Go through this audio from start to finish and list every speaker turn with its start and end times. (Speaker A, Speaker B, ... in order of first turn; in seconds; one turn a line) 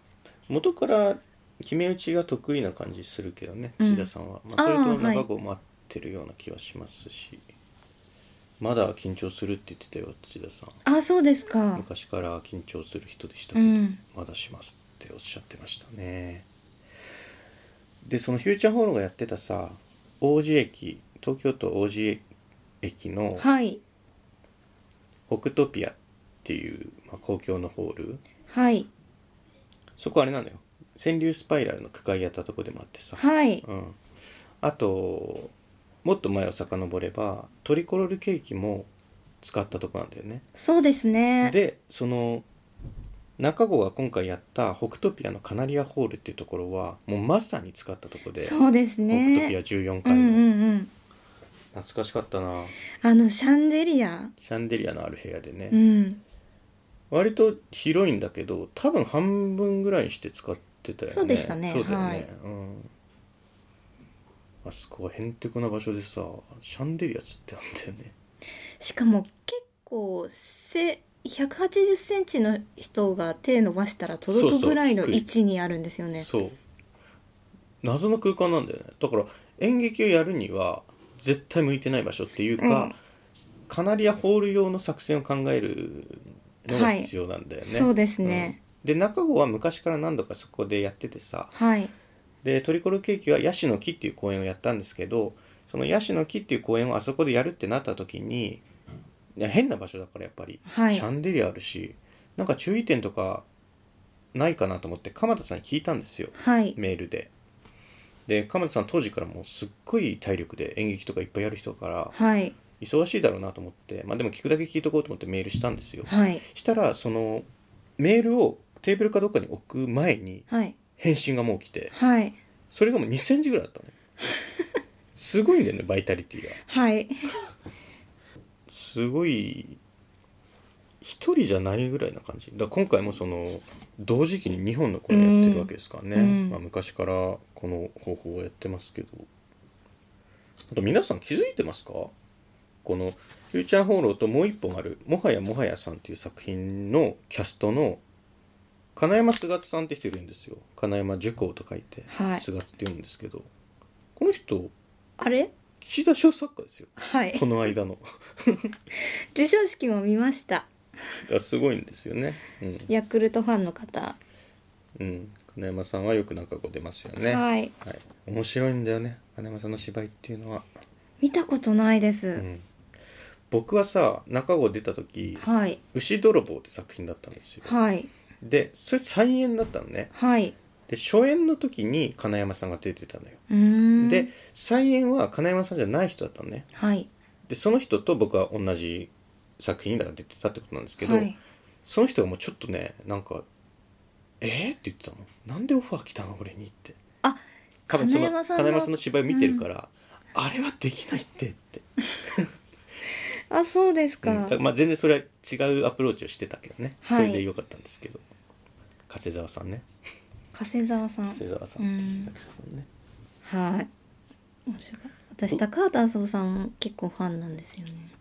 Speaker A: 0.5-7.4
Speaker B: 3.8-5.3
Speaker A: 8.6-10.8
Speaker B: 10.8-11.8
Speaker A: 11.8-16.5
Speaker B: 13.6-14.0
Speaker A: 18.0-22.2
Speaker A: 22.8-23.5
Speaker B: 23.4-23.8
Speaker A: 25.3-28.2
Speaker B: 28.5-28.9
Speaker A: 30.0-34.0
Speaker B: 33.2-33.6
Speaker A: 34.6-35.5
Speaker A: 36.0-38.9
Speaker A: 39.4-40.4
Speaker B: 40.6-41.5
Speaker A: 41.4-42.5
Speaker A: 43.4-48.6
Speaker B: 48.4-50.9
Speaker A: 49.1-50.5
Speaker A: 51.7-52.8
Speaker B: 53.0-54.3
Speaker A: 54.4-55.8
Speaker B: 55.7-56.2
Speaker A: 57.1-62.9
Speaker B: 61.1-62.3
Speaker A: 64.6-68.1
Speaker B: 68.8-76.3
Speaker A: 74.3-75.3
Speaker A: 76.1-76.6
Speaker A: 77.8-83.0
Speaker B: 82.6-82.9
Speaker A: 83.7-91.5
Speaker B: 86.7-87.1
Speaker B: 87.6-88.6
Speaker B: 91.5-91.9
Speaker A: 92.4-98.6
Speaker A: 99.4-103.4
Speaker B: 100.7-101.1
Speaker A: 104.3-107.3
Speaker B: 106.4-106.8
Speaker A: 108.3-112.1
Speaker B: 112.1-112.5
Speaker A: 112.8-117.5
Speaker B: 116.1-116.4
Speaker A: 118.0-120.5
Speaker B: 120.5-120.8
Speaker A: 121.0-121.9
Speaker B: 121.9-122.4
Speaker A: 122.7-124.0
Speaker A: 125.1-126.6
Speaker B: 126.7-127.3
Speaker A: 128.7-129.8
Speaker A: 131.0-139.3
Speaker B: 135.1-136.6
Speaker A: 140.7-142.1
Speaker A: 142.8-148.0
Speaker A: 148.9-153.5
Speaker B: 152.1-152.4
Speaker A: 154.2-154.7
Speaker B: 155.2-155.5
Speaker A: 155.8-158.7
Speaker B: 157.0-157.5
Speaker B: 159.0-160.7
Speaker A: 161.3-162.9
Speaker B: 162.9-164.2
Speaker A: 165.0-170.7
Speaker B: 167.2-167.7
Speaker B: 171.2-172.5
Speaker A: 172.4-172.7
Speaker A: 173.5-177.7
Speaker B: 175.4-175.8
Speaker B: 177.6-178.1
Speaker A: 178.4-180.1
Speaker B: 180.1-180.6
Speaker A: 180.9-183.4
Speaker B: 183.5-184.3
Speaker A: 184.0-186.7
Speaker B: 186.7-187.1
Speaker A: 187.5-193.4
Speaker B: 191.0-191.4
Speaker A: 194.4-197.0
Speaker B: 197.2-199.6
Speaker A: 197.9-202.5
Speaker B: 203.5-204.6
Speaker A: 204.2-208.2
Speaker B: 207.0-207.5
Speaker A: 209.1-209.9
Speaker B: 210.5-212.3
Speaker A: 211.3-212.9
Speaker B: 213.4-213.9
Speaker B: 214.7-218.1